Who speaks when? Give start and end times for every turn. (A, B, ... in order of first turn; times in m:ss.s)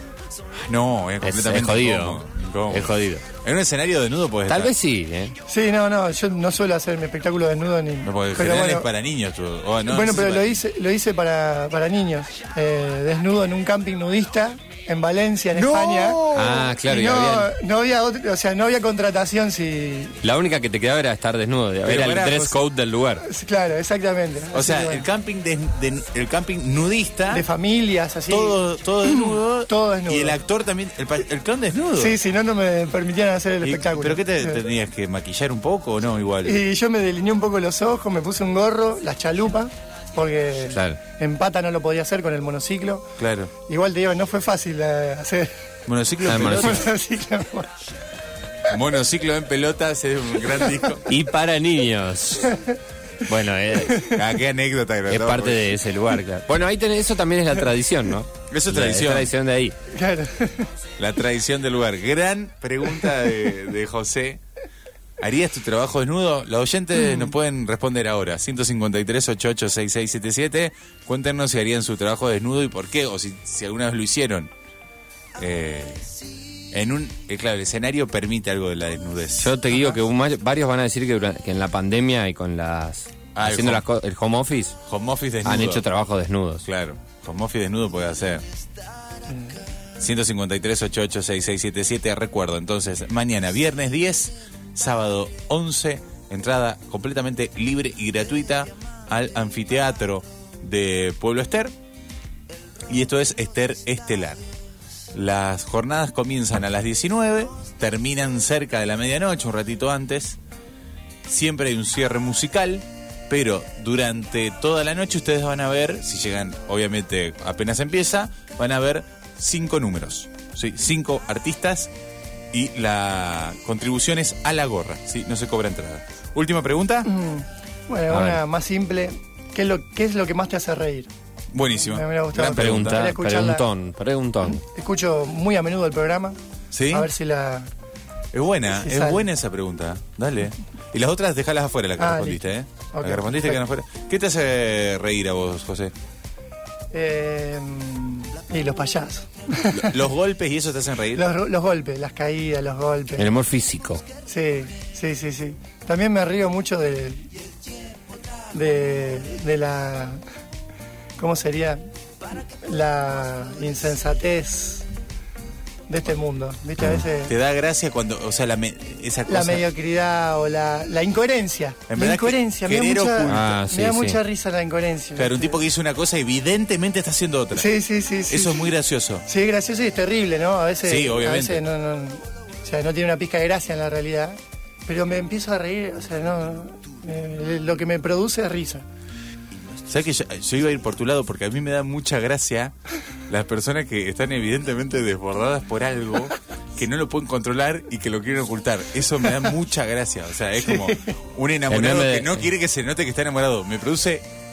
0:00.5-0:04.7 A
0:01.2-0:03.2 B
0:04.5-0:05.3 B
0:05.5-0:08.9 C
0:08.0-0:10.6 A
0:09.9-0:20.2 C
0:15.5-0:16.7 A
0:16.3-0:17.5 B
0:20.2-0:23.2 B
0:21.8-0:22.6 A
0:23.2-0:25.1 C
0:24.5-0:27.5 A
0:27.3-0:30.4 C
0:28.3-0:32.2 A
0:32.0-0:34.6 C
0:33.6-0:36.6 A
0:36.4-0:45.6 C
0:40.7-0:41.0 B
0:43.2-0:43.5 A
0:45.8-0:46.9 A
0:46.3-0:46.8 B
0:46.4-0:47.7 C
0:48.7-0:51.0 A
0:51.1-0:52.6 B
0:52.4-0:52.8 C
0:53.2-0:54.1 B
0:53.8-0:54.2 C
0:54.1-0:55.8 A
0:55.1-0:59.8 B
0:58.5-0:59.3 A
0:59.9-1:00.7 C
1:01.0-1:04.4 A
1:05.2-1:14.5 A
1:15.4-1:16.1 A
1:16.7-1:19.5 A
1:19.4-1:24.8 B
1:19.7-1:20.0 C
1:23.3-1:23.8 A
1:24.9-1:25.8 A
1:25.4-1:26.7 B
1:26.6-1:28.4 A
1:29.3-1:29.6 C
1:30.0-1:41.7 A
1:42.9-1:44.4 A
1:45.1-1:50.4 A
1:51.2-2:01.9 A
2:02.5-2:07.1 A
2:07.0-2:11.1 C
2:08.1-2:08.4 B
2:11.5-2:13.1 A
2:11.6-2:13.7 C
2:12.4-2:14.6 B
2:14.4-2:16.4 C
2:16.7-2:17.1 A
2:16.9-2:17.7 C
2:18.3-2:25.9 A
2:18.6-2:19.3 C
2:22.0-2:23.6 C
2:26.9-2:30.0 C
2:29.7-2:31.2 A
2:31.1-2:33.3 C
2:33.2-2:34.0 B
2:34.2-2:37.3 C
2:38.5-2:40.2 C
2:41.2-2:44.8 C
2:45.9-2:47.3 C
2:46.8-2:47.0 B
2:47.2-2:49.6 A
2:49.3-2:55.6 C
2:51.9-2:53.5 A
2:53.3-2:54.2 B
2:55.2-2:57.7 A
2:57.5-2:58.7 C
2:58.3-2:59.2 A
2:59.2-3:08.8 C
3:00.8-3:01.6 A
3:09.8-3:12.7 A
3:13.3-3:24.2 A
3:20.6-3:21.2 C
3:21.7-3:22.4 B